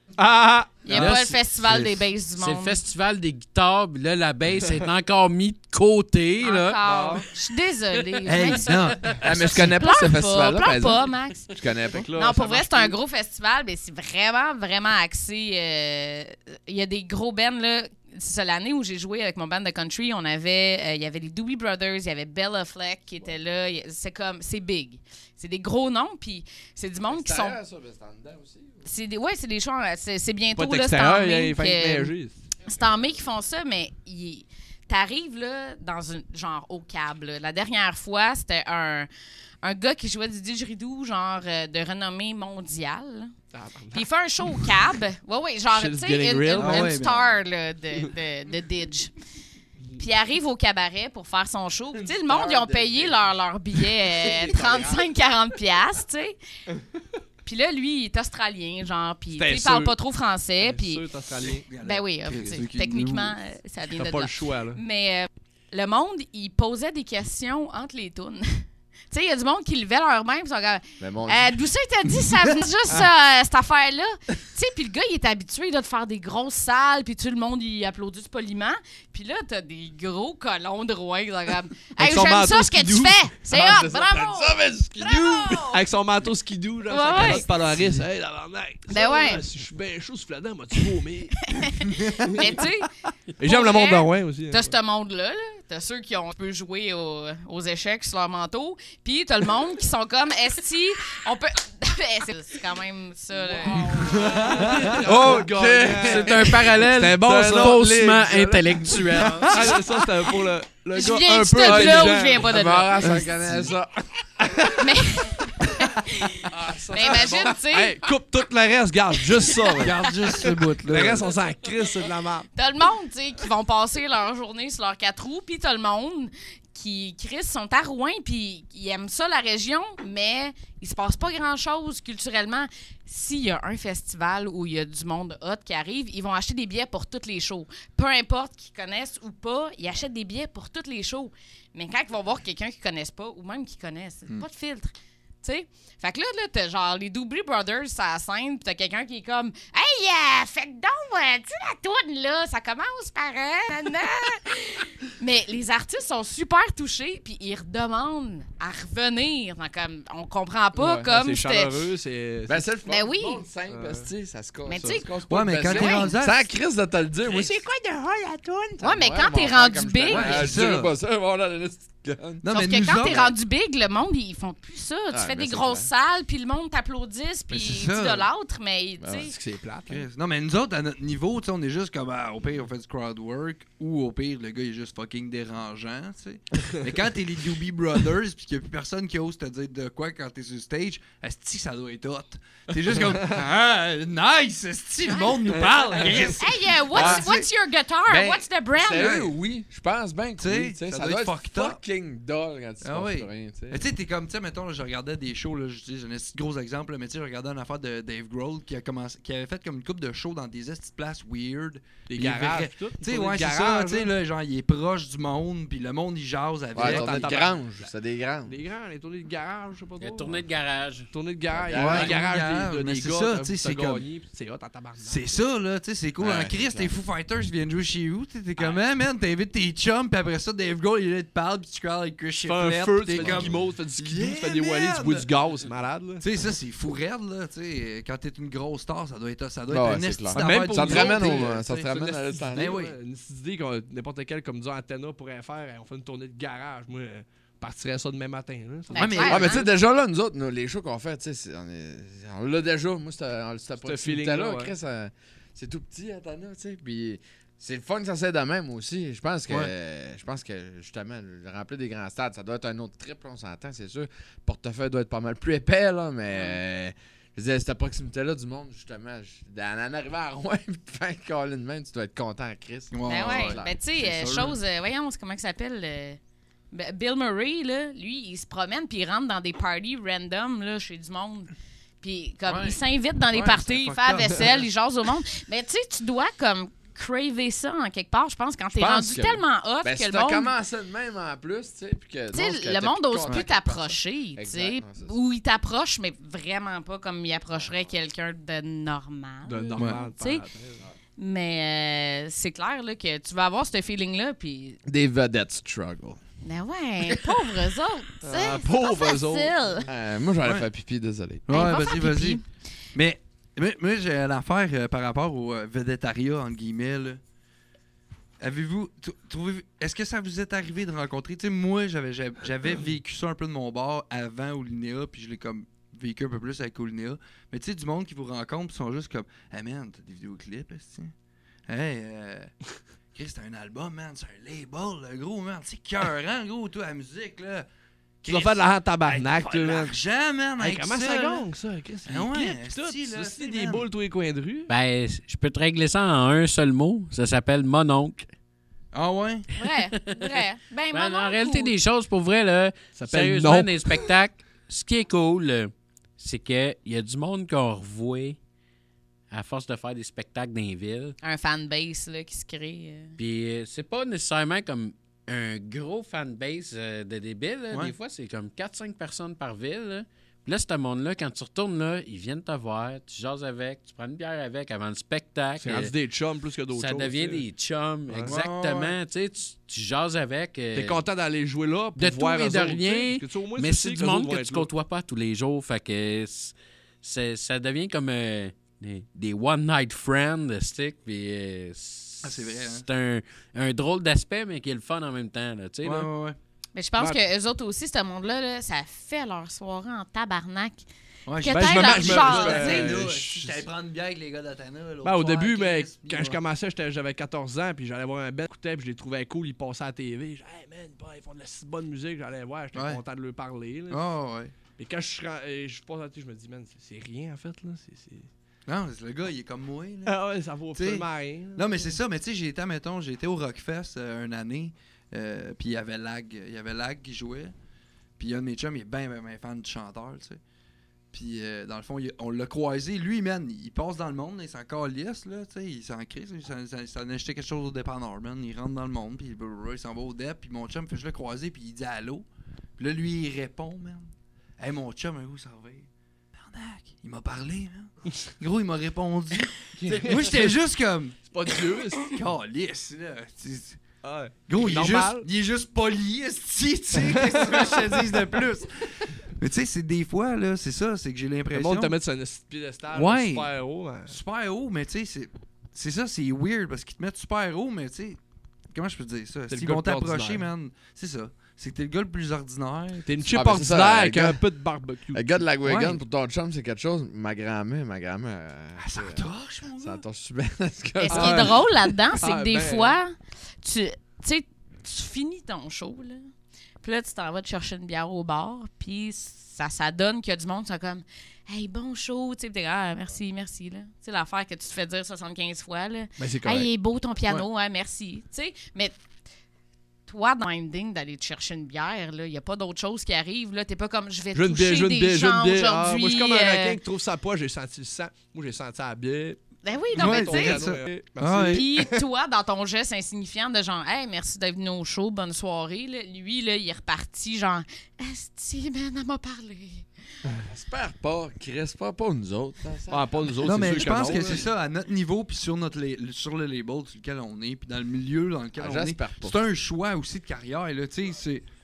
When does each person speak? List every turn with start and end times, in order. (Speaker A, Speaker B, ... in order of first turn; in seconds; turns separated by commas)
Speaker A: 0.2-1.3, Speaker B: 0.8-2.8, Speaker C: 0.9-2.0, Speaker D: 2.4-7.2, Speaker B: 6.4-11.6, Speaker A: 6.8-7.2, Speaker C: 8.2-9.2, Speaker D: 8.7-9.2, Speaker E: 9.2-12.1, Speaker A: 11.9-13.0, Speaker B: 12.1-27.6, Speaker E: 27.1-28.9, Speaker B: 28.8-32.1, Speaker A: 30.6-32.4, Speaker B: 32.6-39.1, Speaker B: 39.6-43.3, Speaker A: 43.5-44.7, Speaker B: 43.9-49.1, Speaker A: 45.7-47.0, Speaker C: 46.5-47.4, Speaker B: 50.0-56.4, Speaker E: 52.0-53.2, Speaker E: 54.2-55.0, Speaker B: 57.4-61.1, Speaker A: 59.3-60.0, Speaker A: 60.6-61.7, Speaker C: 61.5-63.4, Speaker B: 61.8-85.8, Speaker A: 63.9-64.8, Speaker E: 71.0-71.6, Speaker A: 82.0-83.3, Speaker E: 83.5-85.8, Speaker A: 85.6-91.7, Speaker B: 86.9-87.5, Speaker E: 87.1-87.4, Speaker B: 88.9-89.4, Speaker B: 91.5-104.7, Speaker A: 92.2-92.6, Speaker A: 93.4-94.7, Speaker A: 103.4-108.0, Speaker E: 103.8-109.8, Speaker D: 106.0-109.8, Speaker A: 109.4-112.5, Speaker B: 110.9-113.3, Speaker E: 111.6-114.7, Speaker C: 113.4-113.7, Speaker B: 114.7-118.0, Speaker E: 116.5-117.6, Speaker A: 116.9-120.1, Speaker B: 119.3-120.1, Speaker C: 119.8-121.3, Speaker A: 120.8-122.5, Speaker B: 122.5-161.8, Speaker E: 160.7-161.1, Speaker A: 161.1-162.7, Speaker E: 162.5-173.2, Speaker B: 162.8-163.4, Speaker A: 163.7-164.1, Speaker B: 164.7-165.1, Speaker C: 165.3-166.5, Speaker B: 165.7-166.2, Speaker C: 167.3-167.6, Speaker B: 168.8-170.6, Speaker C: 170.1-170.9, Speaker C: 172.4-173.3, Speaker B: 172.5-179.3, Speaker E: 175.1-175.9, Speaker C: 177.5-178.3, Speaker E: 179.0-180.1, Speaker C: 179.9-197.5, Speaker A: 193.0-193.3, Speaker B: 195.1-195.3, Speaker A: 195.6-196.3, Speaker B: 196.3-199.2, Speaker E: 196.9-197.4, Speaker E: 198.1-203.8, Speaker C: 198.9-199.4, Speaker C: 200.4-201.8, Speaker C: 202.8-217.5, Speaker A: 212.1-214.1, Speaker A: 216.7-217.9, Speaker E: 216.7-218.5, Speaker A: 218.4-220.4, Speaker D: 220.0-221.1, Speaker A: 221.1-225.3, Speaker E: 221.5-222.2, Speaker C: 221.7-224.0, Speaker C: 225.0-235.3, Speaker E: 226.2-226.9, Speaker A: 232.4-236.2, Speaker E: 233.1-233.6, Speaker C: 236.2-241.9, Speaker E: 239.7-242.8, Speaker A: 240.3-249.4, Speaker C: 242.5-242.9, Speaker B: 248.9-249.7, Speaker C: 248.9-249.7, Speaker E: 249.2-273.8, Speaker A: 253.8-254.7, Speaker B: 266.3-266.6, Speaker C: 272.9-274.6, Speaker B: 273.1-276.2, Speaker B: 276.7-290.5, Speaker E: 282.4-282.8, Speaker C: 283.3-284.7, Speaker E: 288.7-295.2, Speaker B: 292.3-300.4, Speaker A: 299.4-300.9, Speaker C: 299.8-300.0, Speaker B: 301.2-304.8, Speaker E: 304.9-306.2, Speaker B: 306.4-309.9, Speaker A: 308.2-309.7, Speaker E: 309.9-311.5, Speaker C: 311.5-312.4, Speaker B: 311.5-312.4, Speaker C: 312.9-317.2, Speaker C: 318.4-331.1, Speaker C: 331.7-332.5, Speaker C: 333.1-337.7, Speaker C: 338.2-341.5, Speaker A: 338.2-339.9, Speaker A: 340.6-344.7, Speaker C: 342.1-343.9, Speaker D: 344.7-348.3, Speaker C: 348.9-349.4, Speaker B: 349.5-351.7, Speaker D: 349.6-350.4, Speaker D: 350.9-358.4, Speaker A: 352.9-354.1, Speaker D: 359.3-361.1, Speaker B: 361.2-363.1, Speaker D: 363.2-375.9, Speaker A: 375.6-377.4, Speaker D: 376.7-381.0, Speaker C: 378.2-378.9, Speaker A: 380.7-384.7, Speaker D: 381.9-396.1, Speaker C: 392.2-392.9, Speaker C: 395.8-396.4, Speaker B: 396.7-400.9, Speaker C: 401.3-406.4, Speaker B: 401.4-403.0, Speaker A: 401.5-403.6, Speaker A: 405.0-414.0, Speaker C: 412.7-413.0, Speaker C: 413.9-414.5, Speaker A: 414.8-418.3, Speaker C: 418.7-420.2, Speaker A: 420.0-421.9, Speaker C: 420.7-427.5, Speaker C: 428.2-430.4, Speaker C: 431.1-442.2, Speaker C: 442.8-451.2, Speaker A: 449.8-450.5, Speaker A: 451.3-452.2, Speaker C: 452.0-453.8, Speaker A: 454.0-455.3, Speaker C: 454.5-462.0, Speaker A: 457.0-458.0, Speaker A: 461.5-464.2, Speaker C: 462.9-463.5, Speaker C: 464.1-468.2, Speaker C: 468.7-473.2, Speaker A: 469.5-470.5, Speaker A: 473.1-475.4, Speaker E: 473.3-474.4, Speaker E: 475.1-481.6, Speaker C: 475.6-476.0, Speaker C: 478.8-480.0, Speaker B: 481.0-486.3, Speaker A: 481.1-483.0, Speaker B: 486.8-498.9, Speaker A: 496.2-496.7, Speaker B: 500.1-506.8, Speaker A: 504.3-512.0, Speaker B: 509.6-510.6, Speaker C: 509.9-511.6, Speaker B: 511.5-519.9, Speaker E: 520.4-524.2, Speaker A: 522.9-524.5, Speaker C: 523.4-531.4, Speaker E: 528.6-529.4